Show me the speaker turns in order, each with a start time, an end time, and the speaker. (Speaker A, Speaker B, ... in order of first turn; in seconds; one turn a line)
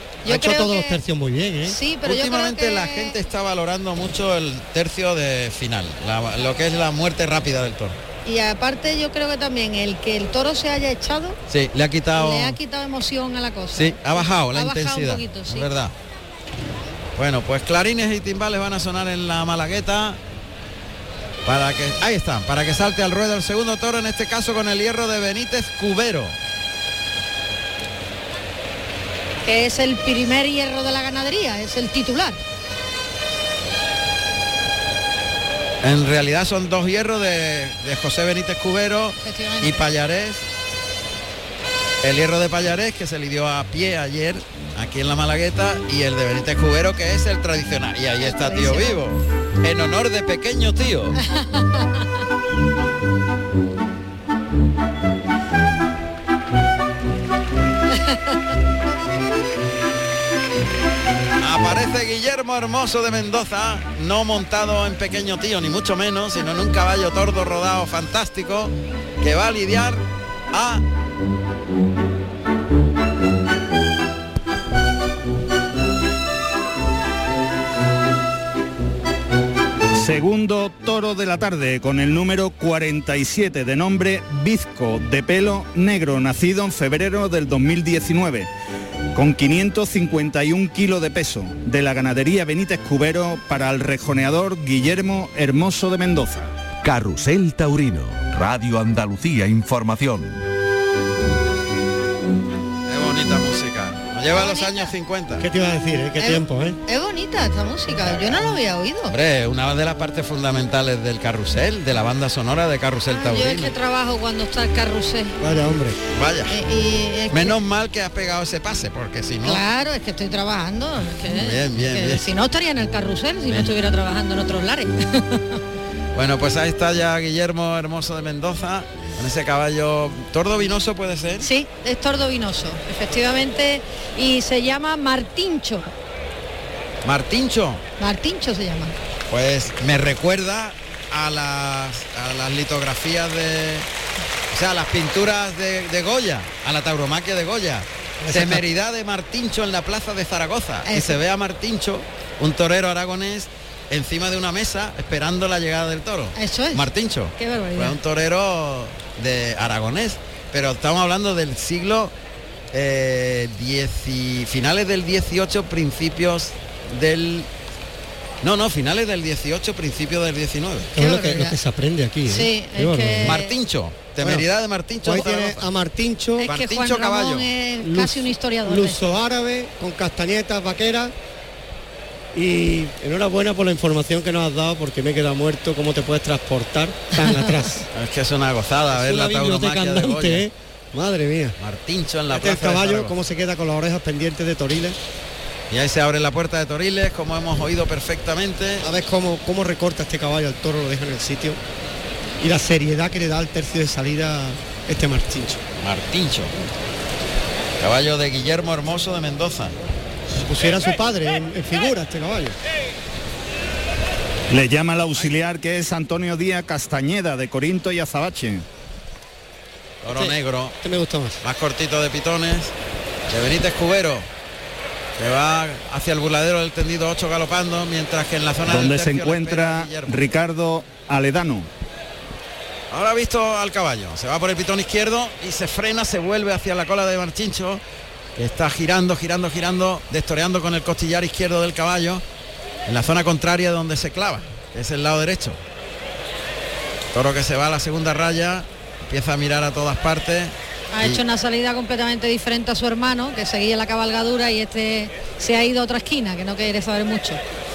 Speaker A: 0.2-1.0
Speaker B: 0.2-1.8
Speaker A: 1.6-3.2
Speaker C: 2.0-8.0
Speaker A: 8.2-11.4
Speaker C: 11.5-12.6
Speaker A: 12.1-15.7
Speaker C: 13.7-15.9
Speaker C: 17.1-20.2
Speaker C: 21.4-26.4
Speaker A: 29.4-32.4
Speaker C: 35.8-40.4
Speaker A: 39.2-39.8
Speaker C: 42.0-51.2
Speaker A: 48.2-49.0
Speaker A: 51.2-52.1
Speaker A: 57.9-58.4
Speaker C: 61.4-70.8
Speaker D: 79.9-88.5
Speaker D: 89.1-96.5
Speaker E: 96.8-100.4
Speaker C: 102.9-105.5
Speaker A: 104.3-104.9
Speaker B: 105.4-106.8
Speaker A: 106.2-109.1
Speaker C: 109.1-113.7
Speaker A: 113.1-115.4
Speaker B: 115.4-116.0
Speaker C: 116.1-116.5
Speaker A: 116.5-117.6
Speaker C: 117.3-119.6
Speaker A: 119.4-125.6
Speaker C: 121.3-122.3
Speaker C: 126.1-131.5
Speaker A: 131.4-135.9
Speaker C: 137.0-137.8
Speaker A: 138.0-138.9
Speaker C: 139.3-143.9
Speaker C: 144.5-162.1
Speaker B: 148.2-148.6
Speaker A: 150.8-151.2
Speaker A: 156.3-156.8
Speaker A: 157.4-158.0
Speaker C: 162.7-167.5
Speaker C: 168.4-170.9
Speaker B: 170.9-173.4
Speaker A: 171.0-171.6
Speaker A: 172.3-173.5
Speaker C: 173.2-175.7
Speaker B: 174.2-174.4
Speaker B: 175.0-176.5
Speaker A: 176.4-179.0
Speaker C: 176.4-177.5
Speaker B: 177.8-181.1
Speaker B: 182.3-187.9
Speaker C: 187.9-190.5
Speaker B: 188.9-191.6
Speaker C: 191.6-193.1
Speaker B: 192.3-195.0
Speaker C: 195.7-198.8
Speaker B: 198.8-201.6
Speaker B: 202.4-205.6
Speaker C: 205.8-206.6
Speaker C: 207.8-209.8
Speaker B: 210.4-212.6
Speaker D: 214.5-218.6
Speaker C: 220.0-220.8
Speaker B: 220.1-221.4
Speaker C: 221.4-222.7
Speaker C: 223.3-224.3
Speaker C: 225.2-230.1
Speaker D: 228.7-231.7
Speaker C: 232.9-237.8
Speaker C: 238.3-242.2
Speaker C: 242.9-245.6
Speaker C: 247.1-251.2
Speaker A: 250.9-257.4